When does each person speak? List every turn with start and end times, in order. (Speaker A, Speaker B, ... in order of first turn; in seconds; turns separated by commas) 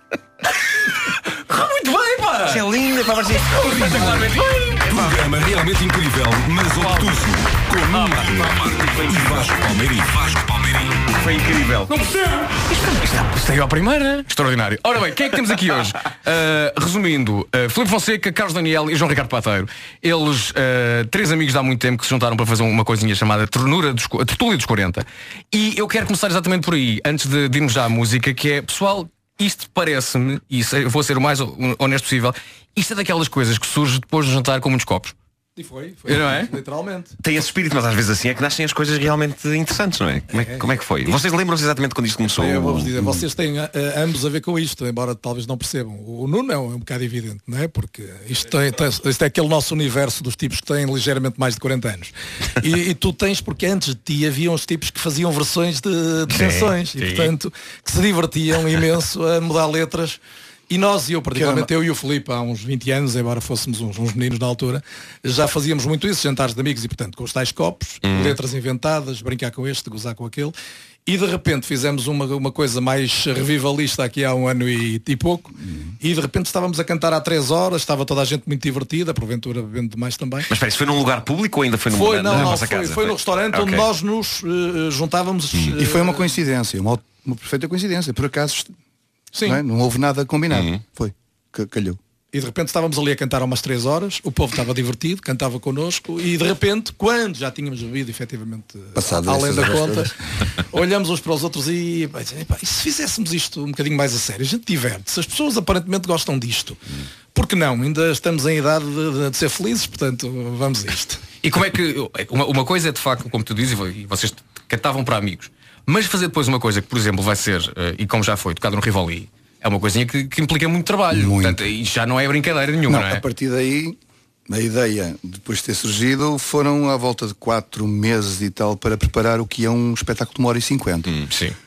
Speaker A: 1.3-2.7, Speaker B: 2.5-4.3, Speaker A: 3.4-5.0, Speaker C: 4.9-11.0, Speaker B: 9.0-9.5, Speaker B: 11.1-12.0, Speaker A: 11.9-35.1, Speaker D: 35.6-37.2, Speaker A: 36.1-36.5, Speaker B: 37.2-42.9, Speaker D: 40.4-40.7, Speaker D: 42.3-70.5, Speaker B: 56.4-56.7, Speaker A: 57.0-57.3, Speaker E: 61.4-61.7, Speaker B: 68.0-68.4, Speaker D: 71.1-80.5, Speaker B: 80.5-83.9, Speaker D: 81.9-86.3, Speaker E: 82.3-82.6, Speaker E: 85.8-88.8, Speaker D: 89.3-89.6, Speaker E: 89.5-92.0, Speaker B: 90.5-90.8, Speaker D: 92.3-106.8, Speaker E: 99.0-100.1, Speaker D: 107.3-111.2, Speaker A: 111.4-123.2, Speaker E: 121.1-121.7, Speaker E: 122.9-131.2, Speaker A: 131.3-131.6